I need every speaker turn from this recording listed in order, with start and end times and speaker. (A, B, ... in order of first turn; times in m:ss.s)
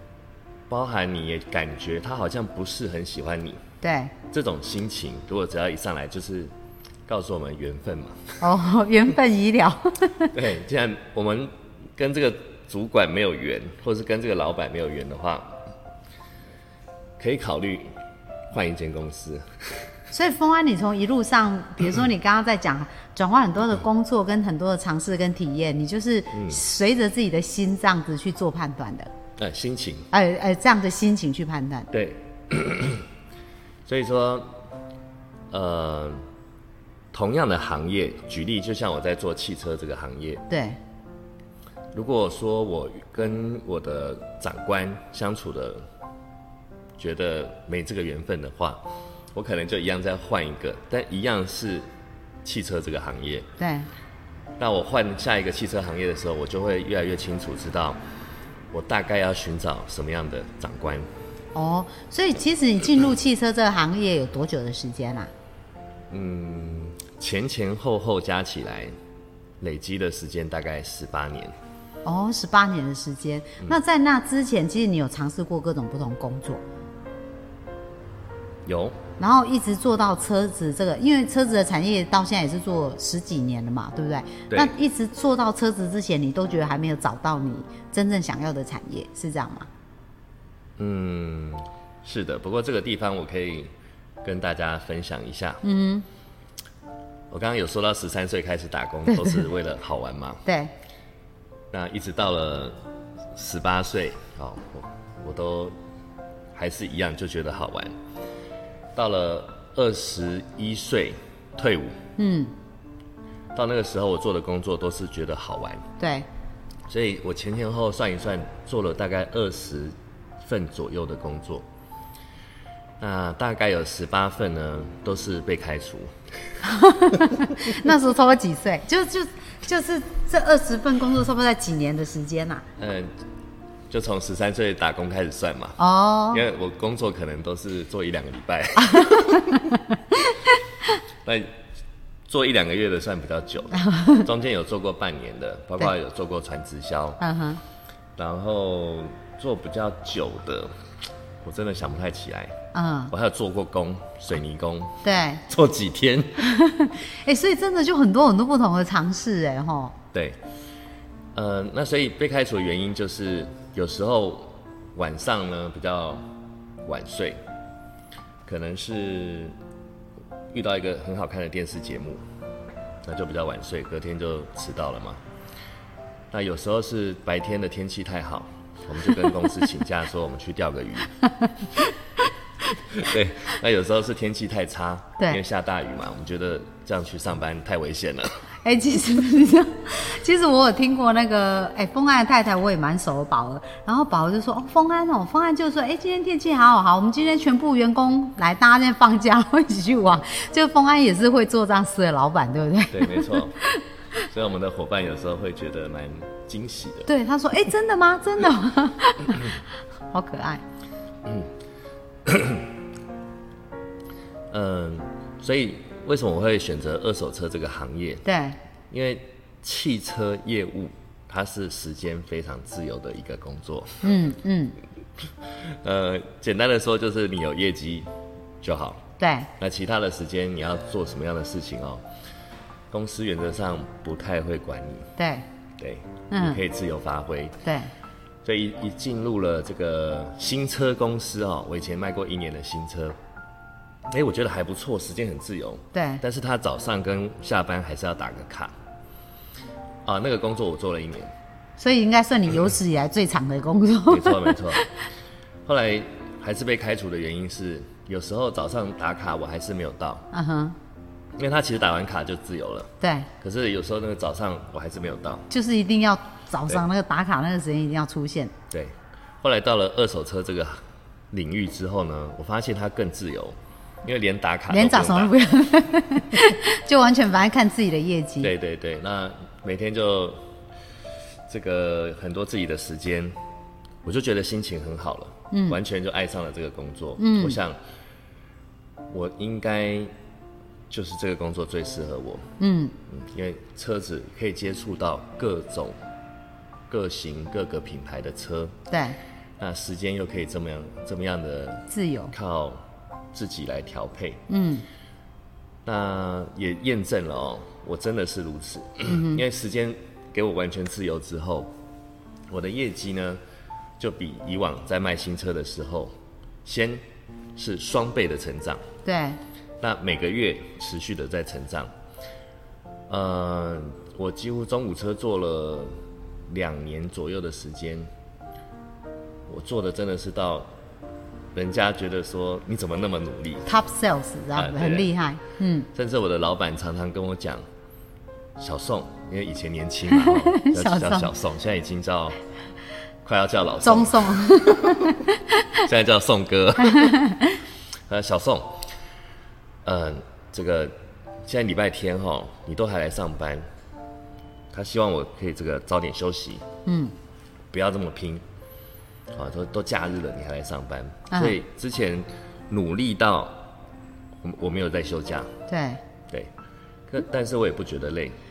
0:00.7-0:03.6 A
0:03.8-0:04.1 B
0:04.3-0:06.5 A
0:07.1-0:08.4 A
0:08.4-0:10.3 B
0:10.3-0:15.5 A
0:17.2-0:17.9 A
0:18.5-0:19.4 A
0:20.1-0:29.1 B
0:26.3-0:26.6 A
0:29.4-0:30.1 A
0:30.1-0:31.9 B
0:31.9-0:33.0 A
0:33.8-0:34.6 A
0:35.5-0:36.2 A
0:37.1-0:40.4 A
0:40.5-0:40.8 B
0:41.9-0:45.8 A
0:47.0-0:48.8 A
0:49.3-0:51.9 A
0:52.4-0:53.4 A
0:53.6-0:53.9 B
0:54.6-0:58.0 A
0:58.7-1:01.1 A
1:01.5-1:05.3 B
1:06.1-1:08.9 A
1:09.6-1:11.5 A
1:12.0-1:16.6 B
1:18.6-1:19.0 A
1:19.2-1:29.7 B
1:30.8-1:33.7 A
1:34.2-1:35.6 A
1:35.6-1:36.0 B
1:37.3-1:40.4 A
1:39.1-1:39.4 B
1:40.4-1:40.7 B
1:41.7-1:42.8 A
1:43.3-1:45.8 A
1:46.5-1:47.9 A
1:48.9-1:52.0 A
1:52.2-1:52.5 B
1:53.5-1:55.8 A
1:56.0-1:56.3 B
1:56.9-2:01.6 A
2:03.0-2:06.1 A
2:06.6-2:12.6 B
2:12.8-2:13.1 A
2:13.9-2:15.8 A
2:15.8-2:16.4 B
2:16.3-2:19.7 A
2:21.2-2:21.5 A
2:22.3-2:27.2 A
2:23.8-2:24.3 B
2:27.2-2:27.6 B
2:28.2-2:30.7 A
2:31.4-2:32.5 A
2:32.7-2:33.1 B
2:33.1-2:36.4 A
2:35.0-2:35.4 B
2:36.4-2:39.9 B
2:40.1-2:40.4 A
2:41.3-2:46.2 A
2:46.8-2:47.4 A
2:48.4-2:49.6 A
2:50.5-2:52.2 A
2:53.0-2:55.2 A
2:56.3-3:01.2 A
3:01.4-3:01.9 B
3:02.9-3:08.4 A
3:08.6-3:23.8 B
3:22.9-3:23.6 A
3:24.3-3:27.1 A
3:27.1-3:30.6 B
3:32.2-3:32.7 A
3:34.5-3:38.2 A
3:38.2-3:38.6 B
3:38.9-3:44.1 A
3:44.0-3:44.8 B
3:45.6-3:48.1 A
3:48.6-3:49.0 A
3:49.2-3:49.5 B
3:49.6-3:52.0 A
3:52.9-3:55.1 A
3:55.2-3:55.4 B
3:55.8-3:57.6 A
3:56.3-3:56.6 B
3:57.6-3:57.9 B
3:58.4-4:03.2 A
4:04.1-4:08.7 A
4:05.9-4:06.2 B
4:10.0-4:11.3 A
4:11.8-4:14.9 B
4:14.1-4:14.8 A
4:15.6-4:20.3 A
4:20.3-4:20.8 B
4:21.4-4:22.9 A
4:23.0-4:23.3 B
4:23.4-4:25.5 A
4:25.5-4:28.5 B
4:28.7-4:35.3 A
4:34.7-4:38.5 B
4:38.4-4:40.4 A
4:41.5-4:43.3 A
4:44.0-4:47.8 A
4:45.5-4:45.8 B
4:47.2-4:47.6 B
4:49.1-4:50.1 A
4:50.9-4:52.4 A
4:52.6-4:52.9 B
4:53.1-4:56.0 A
4:56.9-4:58.7 A
4:58.9-4:59.2 B
4:59.6-5:02.8 A
5:01.9-5:02.3 B
5:03.3-5:04.4 A
5:04.5-5:04.8 B
5:05.8-5:11.7 A
5:09.1-5:09.4 B
5:12.5-5:13.4 A
5:14.0-5:16.1 A
5:16.6-5:17.0 A
5:17.6-5:18.8 A
5:19.0-5:19.4 B
5:19.8-5:21.9 A
5:23.1-5:25.9 A
5:26.5-5:28.1 A
5:29.5-5:30.7 A
5:31.5-5:33.7 A
5:33.6-5:35.9 B
5:34.5-5:35.1 A
5:35.9-5:37.6 A
5:38.6-5:42.4 A
5:40.1-5:41.3 B
5:43.2-5:44.9 A
5:43.8-5:45.4 B
5:45.8-5:47.2 A
5:46.9-5:47.6 B
5:48.1-5:48.8 A
5:49.8-5:50.9 A
5:51.5-5:53.6 A
5:54.7-5:56.6 A
5:56.8-5:57.1 B
5:57.7-5:58.4 A
5:59.3-6:03.7 A
6:01.3-6:01.6 B
6:04.4-6:05.5 A
6:05.7-6:06.0 B
6:07.1-6:08.4 A